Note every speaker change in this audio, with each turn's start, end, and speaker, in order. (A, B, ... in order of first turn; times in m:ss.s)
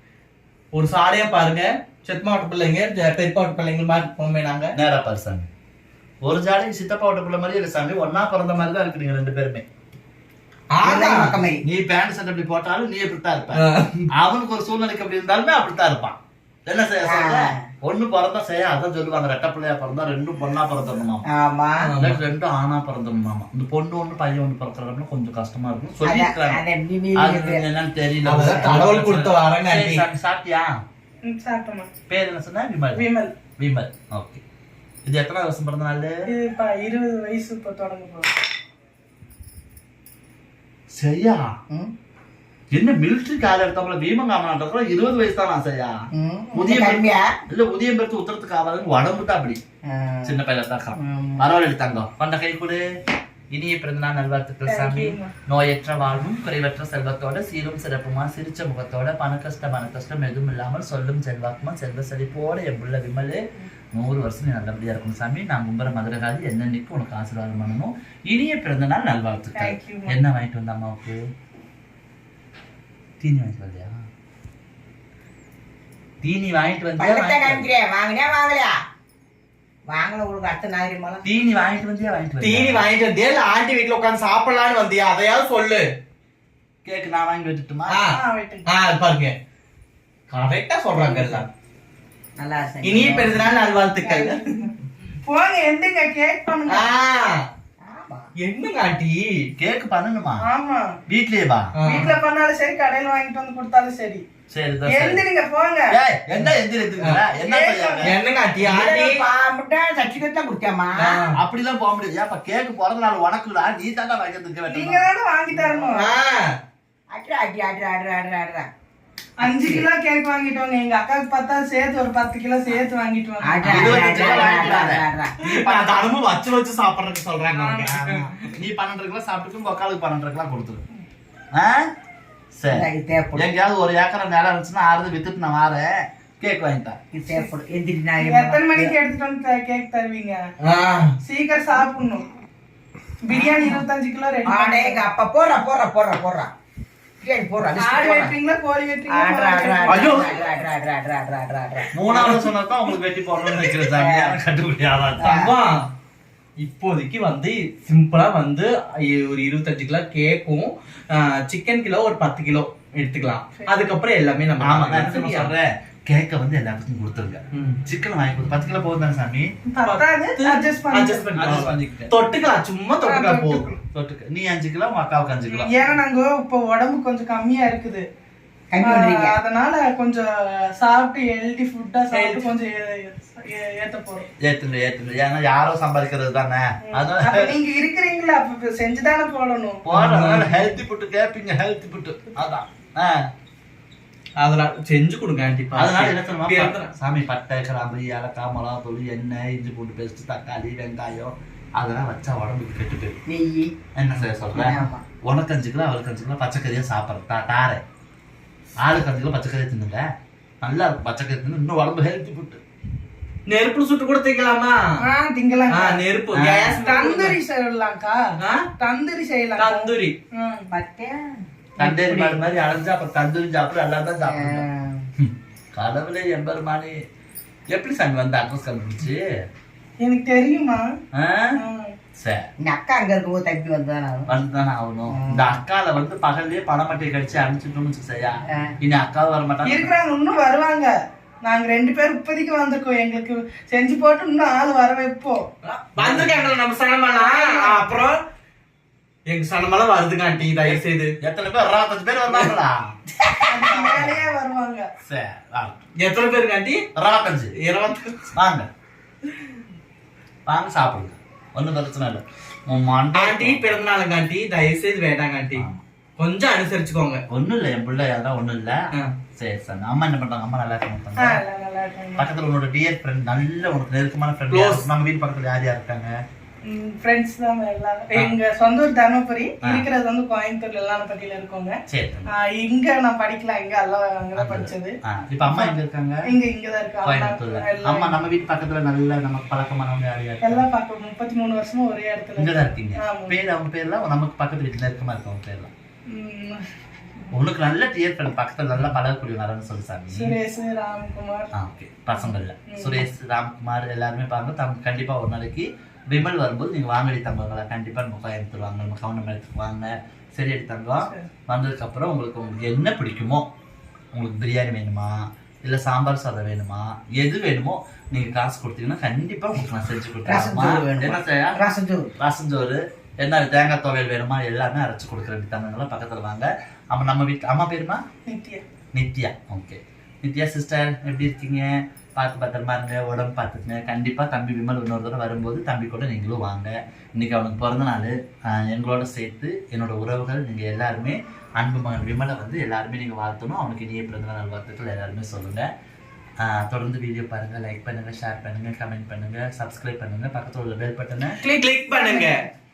0:00.7-0:04.7 A
0:04.8-0:05.5 B
0:06.2-0:09.6 B
0:10.7-0:11.4 A
0:10.8-0:11.6 C
0:11.6-0:13.6 B
0:13.6-0:14.0 A
0:14.1-0:21.2 B
0:17.0-0:17.6 C
0:21.3-0:21.9 C
0:21.8-0:22.2 A
0:22.0-0:26.6 B
0:26.0-0:27.6 C
0:27.2-0:30.7 B
0:28.2-0:30.0 A
0:28.4-0:28.7 C
0:31.2-0:31.9 D
0:32.1-0:33.1 B
0:33.0-0:33.3 D
0:33.6-0:34.4 B
0:35.1-0:36.2 B
0:36.3-0:38.3 D
0:40.9-0:41.5 B
0:42.7-0:46.0 B
0:46.1-0:47.3 C
0:46.5-0:49.6 B
0:49.9-0:50.4 C
0:50.2-0:52.8 B
0:51.0-0:51.4 C
0:53.5-1:03.4 B
0:54.6-0:55.3 D
1:03.9-1:11.2 B
1:09.6-1:10.2 D
1:13.2-1:13.9 B
1:16.2-1:17.7 B
1:17.0-1:18.7 C
1:19.9-1:21.2 C
1:21.2-1:22.9 B
1:22.4-1:25.8 A
1:26.8-1:28.0 B
1:27.9-1:29.4 A
1:28.1-1:28.7 D
1:30.3-1:31.5 A
1:30.9-1:31.5 C
1:32.4-1:33.5 C
1:32.8-1:34.4 A
1:34.0-1:34.7 D
1:35.2-1:36.9 D
1:36.7-1:37.4 A
1:37.8-1:38.3 C
1:38.4-1:39.5 A
1:39.6-1:40.5 B
1:40.4-1:40.9 D
1:41.1-1:41.7 B
1:41.8-1:42.1 A
1:41.8-1:44.2 D
1:44.5-1:45.2 B
1:44.9-1:45.9 D
1:45.9-1:48.1 B
1:46.4-1:47.2 A
1:47.4-1:48.1 D
1:48.0-1:49.2 A
1:48.6-1:51.2 C
1:51.0-1:51.4 A
1:51.4-1:55.1 B
1:54.7-1:56.1 D
1:55.6-1:55.8 C
1:55.9-1:56.4 A
1:57.1-1:58.7 C
1:59.4-2:04.6 D
1:59.4-1:59.9 C
2:03.4-2:05.4 C
2:03.6-2:05.0 B
2:05.4-2:08.1 A
2:05.6-2:06.1 D
2:07.5-2:08.1 D
2:07.8-2:10.8 B
2:11.6-2:11.8 B
2:12.6-2:17.0 B
2:12.7-2:13.5 C
2:17.1-2:18.9 C
2:18.2-2:20.4 D
2:20.6-2:21.2 A
2:21.2-2:22.3 D
2:23.2-2:25.0 D
2:23.3-2:23.8 C
2:24.5-2:26.5 C
2:27.2-2:28.3 C
2:27.8-2:30.3 D
2:29.1-2:32.0 C
2:29.9-2:30.3 A
2:31.9-2:35.3 B
2:32.1-2:32.4 A
2:33.8-2:34.4 C
2:35.2-2:35.5 C
2:35.2-2:35.9 A
2:36.6-2:45.5 A
2:44.6-2:49.5 B
2:47.5-2:47.8 A
2:49.7-2:51.5 D
2:49.8-2:53.7 A
2:51.4-2:52.1 B
2:53.0-2:53.7 D
2:53.9-2:55.8 B
2:55.5-2:58.0 D
2:58.7-2:59.4 C
2:58.8-3:00.2 D
3:00.8-3:04.3 D
3:02.1-3:02.5 A
3:04.4-3:07.6 B
3:06.9-3:09.8 D
3:09.9-3:13.2 B
3:09.9-3:10.6 A
3:14.4-3:16.9 A
3:15.8-3:23.2 B
3:23.3-3:23.7 C
3:24.0-3:27.8 B
3:24.5-3:25.0 C
3:28.8-3:30.0 B
3:30.6-3:32.6 B
3:33.5-3:35.0 A
3:35.0-3:36.0 D
3:35.7-3:37.4 A
3:36.3-3:36.9 B
3:36.7-3:38.2 D
3:38.4-3:38.7 A
3:38.8-3:40.7 D
3:39.6-3:40.1 A
3:40.7-3:41.4 C
3:41.8-3:44.6 B
3:41.8-3:42.2 D
3:42.0-3:42.2 C
3:44.2-3:45.1 C
3:45.2-3:47.0 B
3:47.7-3:49.2 B
3:50.0-3:50.8 D
3:51.1-3:51.5 B
3:51.6-3:51.9 D
3:52.2-3:52.5 B
3:52.6-3:54.3 C
3:54.3-3:59.9 B
3:55.1-3:55.6 C
3:59.6-4:00.9 D
4:01.4-4:05.4 D
4:05.7-4:08.2 A
4:06.0-4:06.5 B
4:07.1-4:07.8 D
4:09.3-4:11.1 A
4:10.6-4:12.9 B
4:13.2-4:13.9 C
4:13.5-4:14.9 D
4:13.7-4:14.3 B
4:15.0-4:15.8 B
4:16.0-4:16.8 A
4:17.0-4:17.5 B
4:17.6-4:18.2 A
4:18.3-4:18.7 B
4:20.5-4:23.8 B
4:23.1-4:25.6 A
4:25.6-4:25.8 B
4:26.2-4:27.2 A
4:27.3-4:28.8 B
4:29.4-4:31.4 B
4:31.2-4:32.2 D
4:32.2-4:36.1 B
4:34.5-4:34.9 A
4:36.6-4:41.8 D
4:41.9-4:42.3 B
4:42.3-4:45.0 D
4:44.4-4:46.2 B
4:45.5-4:48.2 D
4:47.0-4:50.6 B
4:50.4-4:53.4 D
4:52.4-4:55.7 B
4:56.1-4:56.6 D
4:57.3-5:00.4 B
5:00.1-5:01.5 D
5:01.6-5:13.5 B
5:02.2-5:03.0 D
5:14.1-5:21.6 B
5:20.2-5:22.1 C
5:22.2-5:28.0 B
5:28.2-5:28.6 D
5:28.9-5:45.7 B
5:46.4-5:51.4 B
5:51.4-5:52.4 A
5:51.9-5:52.4 D